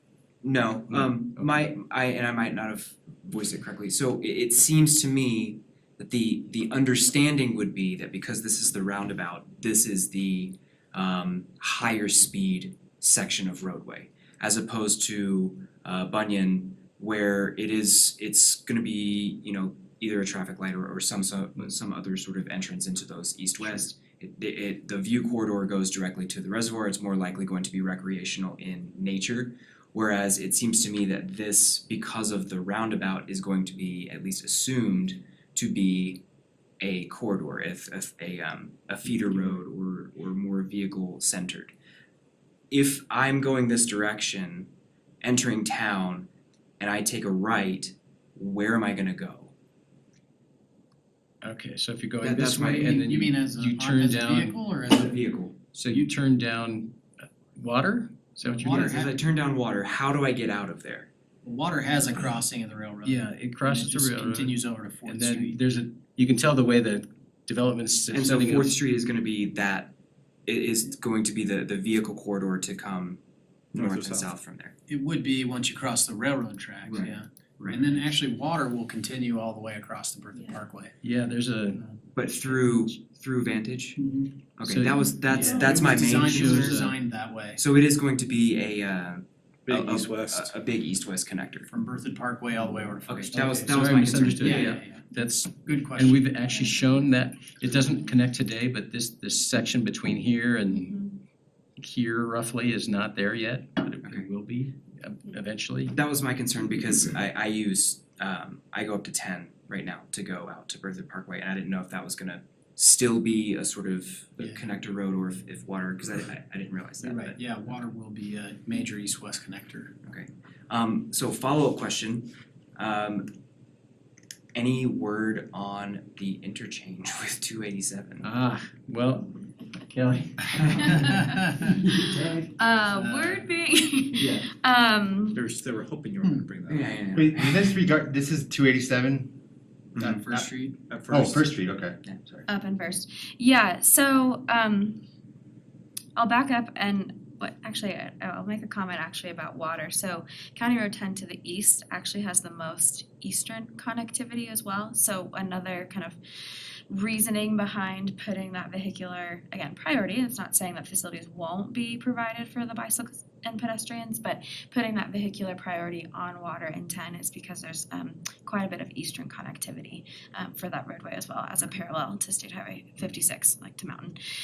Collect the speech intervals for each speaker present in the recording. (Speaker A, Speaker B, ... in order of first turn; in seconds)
Speaker A: 0.4-36.2, 36.8-41.8, 42.7-44.7, 45.2-49.5, 52.2-53.0, 54.9-55.7, 58.6-61.1, 68.1-69.9, 70.5-73.2, 73.7-74.7, 76.8-78.1, 82.2-84.0, 84.6-86.9, 87.6-91.7, 93.1-94.8, 104.0-104.3, 105.9-117.4, 120.1-123.3, 124.5-128.3, 136.7-137.7, 139.9-140.3
Speaker B: 0.9-1.7, 51.4-54.6, 55.7-59.0, 63.0-68.8, 81.0-82.9, 84.7-86.9, 93.5-101.0, 101.8-106.0, 128.2-131.2, 132.0-132.5
Speaker C: 53.1-55.2, 58.6-59.2, 61.4-65.6, 74.9-80.9, 85.7-87.6, 91.7-93.7, 94.4-95.1, 95.7-96.2, 117.1-119.9, 140.0-140.8
Speaker D: 73.7-74.3, 89.7-90.6, 135.3-137.0, 140.8-141.6
Speaker E: 85.3-85.7, 96.6-97.0, 100.7-101.2, 130.8-131.4, 132.6-135.4, 142.5-145.0, 146.2-156.2, 156.9-174.2
Speaker F: 132.8-133.5, 137.1-139.4, 140.3-140.5, 141.1-142.4